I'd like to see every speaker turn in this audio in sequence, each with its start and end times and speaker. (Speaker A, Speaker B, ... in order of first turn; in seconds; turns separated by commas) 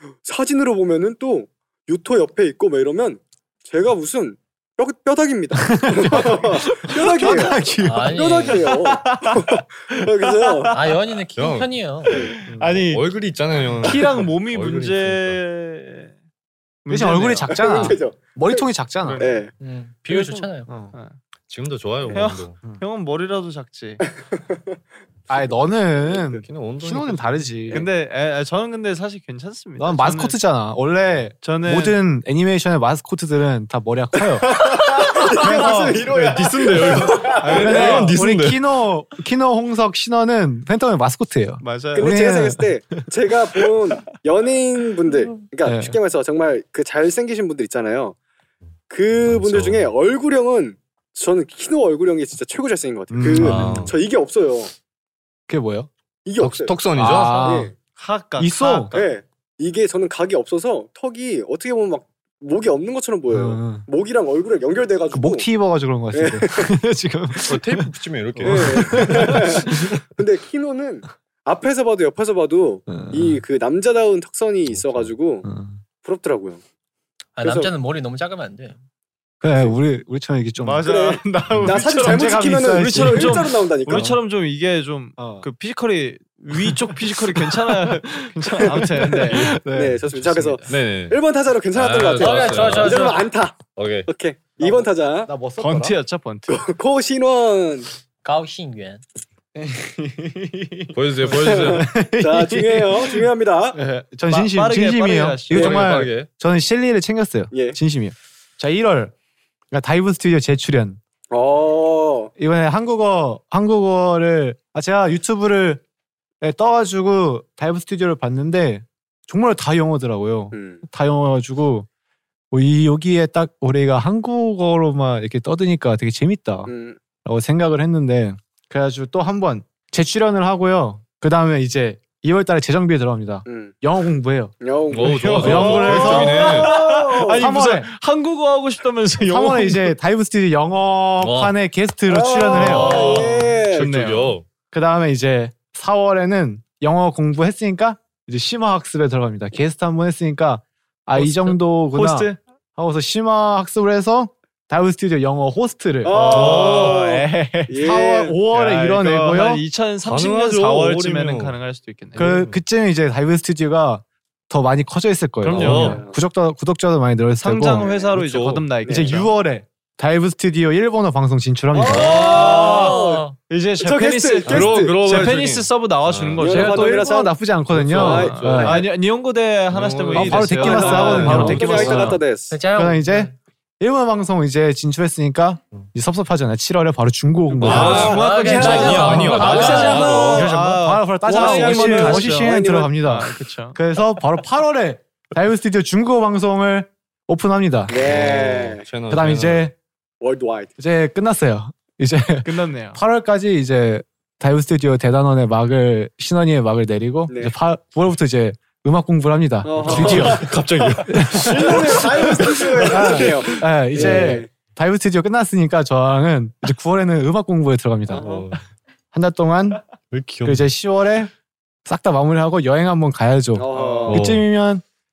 Speaker A: 0.2-10.7, Speaker B: 5.6-8.5, Speaker C: 7.8-8.7, Speaker D: 8.8-9.6, Speaker D: 10.3-10.8, Speaker C: 10.7-12.2, Speaker E: 11.4-11.7, Speaker D: 12.1-13.1, Speaker B: 12.5-12.9, Speaker E: 12.8-15.4, Speaker D: 13.8-16.1, Speaker B: 13.8-14.2, Speaker D: 16.9-17.6, Speaker B: 16.9-19.3, Speaker A: 17.5-18.6, Speaker A: 19.2-19.5, Speaker C: 19.6-20.7, Speaker D: 20.1-21.2, Speaker B: 20.7-20.9, Speaker E: 21.5-22.6, Speaker D: 22.1-24.0, Speaker B: 25.3-27.9, Speaker E: 26.5-27.4, Speaker D: 27.7-30.4, Speaker B: 29.8-36.0, Speaker D: 31.4-32.0, Speaker A: 34.4-37.8, Speaker D: 35.5-36.0, Speaker E: 35.5-38.6, Speaker D: 37.4-38.1, Speaker B: 37.4-42.7, Speaker D: 41.6-42.2, Speaker A: 41.9-48.2, Speaker B: 45.6-46.0, Speaker A: 48.9-54.7, Speaker E: 49.1-49.9, Speaker B: 53.1-53.9, Speaker E: 53.3-54.0, Speaker B: 55.5-55.9, Speaker A: 56.2-57.8, Speaker E: 56.4-57.6, Speaker B: 57.0-57.7, Speaker D: 57.8-59.1, Speaker B: 58.4-58.9, Speaker A: 58.9-65.5, Speaker B: 63.3-63.9, Speaker B: 65.1-70.0, Speaker A: 66.1-66.7, Speaker E: 67.5-69.5, Speaker A: 68.5-75.5, Speaker B: 72.9-73.4, Speaker E: 74.7-75.1, Speaker B: 75.4-75.8, Speaker A: 76.0-76.6, Speaker C: 77.4-78.8, Speaker A: 77.4-77.7, Speaker B: 79.4-80.9, Speaker A: 79.5-79.7, Speaker D: 80.6-89.6, Speaker A: 80.9-84.2, Speaker B: 81.5-84.2, Speaker B: 85.2-85.5, Speaker B: 86.5-90.6, Speaker A: 89.7-95.3, Speaker E: 90.7-91.2, Speaker E: 91.7-93.2, Speaker C: 92.2-93.2, Speaker E: 93.7-94.1, Speaker B: 94.6-96.0, Speaker D: 95.6-96.6, Speaker A: 96.5-97.9, Speaker C: 98.2-99.0, Speaker B: 99.6-109.1, Speaker E: 100.9-101.9, Speaker A: 101.4-103.8, Speaker D: 104.3-105.7, Speaker E: 105.5-106.3, Speaker A: 105.5-105.9, Speaker A: 107.5-107.8, Speaker B: 109.7-111.0, Speaker A: 111.3-112.3, Speaker B: 112.4-115.8, Speaker B: 116.4-121.9, Speaker A: 120.5-120.8, Speaker B: 122.5-126.7, Speaker A: 126.7-127.0, Speaker B: 127.2-134.6, Speaker A: 133.5-133.7, Speaker A: 134.6-137.5, Speaker E: 134.9-136.7, Speaker D: 135.1-139.9, Speaker B: 135.4-136.7, Speaker B: 137.3-137.9, Speaker B: 139.2-143.2, Speaker E: 141.2-141.6, Speaker A: 142.1-143.9, Speaker E: 142.5-144.4, Speaker D: 142.5-144.3, Speaker B: 144.7-156.2, Speaker D: 151.1-152.4, Speaker A: 156.0-158.4, Speaker E: 156.1-157.0, Speaker D: 156.2-162.3, Speaker B: 157.8-159.6, Speaker E: 160.0-161.6, Speaker B: 162.2-167.9, Speaker E: 162.2-162.6, Speaker E: 165.4-166.0, Speaker A: 165.5-166.2, Speaker D: 167.4-169.3, Speaker A: 167.8-168.2, Speaker E: 168.2-169.2, Speaker B: 168.8-172.3, Speaker A: 168.8-169.2, Speaker A: 171.7-173.3, Speaker E: 171.9-173.0, Speaker C: 172.1-173.4, Speaker D: 172.1-177.0, Speaker A: 173.8-175.0, Speaker E: 174.5-176.5, Speaker A: 176.4-177.3, Speaker B: 176.4-178.9, Speaker E: 177.7-178.9, Speaker A: 177.9-178.9, Speaker D: 178.0-182.2, Speaker E: 179.7-182.2, Speaker B: 180.1-182.2, Speaker A: 180.7-182.6, Speaker C: 182.5-183.3, Speaker B: 182.8-198.0, Speaker D: 187.6-193.8, Speaker E: 187.6-190.5, Speaker A: 187.6-190.6, Speaker C: 188.1-190.4, Speaker A: 191.3-192.9, Speaker A: 197.9-198.8, Speaker E: 198.0-199.7, Speaker B: 199.1-199.7, Speaker A: 200.2-200.7, Speaker B: 200.8-210.5, Speaker D: 202.4-203.0, Speaker A: 207.3-207.5, Speaker A: 209.6-214.5, Speaker E: 209.8-214.4, Speaker B: 211.1-211.8, Speaker B: 212.8-218.2, Speaker A: 218.1-218.5, Speaker E: 218.1-218.6, Speaker B: 219.1-219.8, Speaker E: 220.1-220.7, Speaker B: 220.4-221.3, Speaker B: 221.8-224.8, Speaker A: 223.6-224.2, Speaker D: 223.7-224.1, Speaker E: 224.1-224.5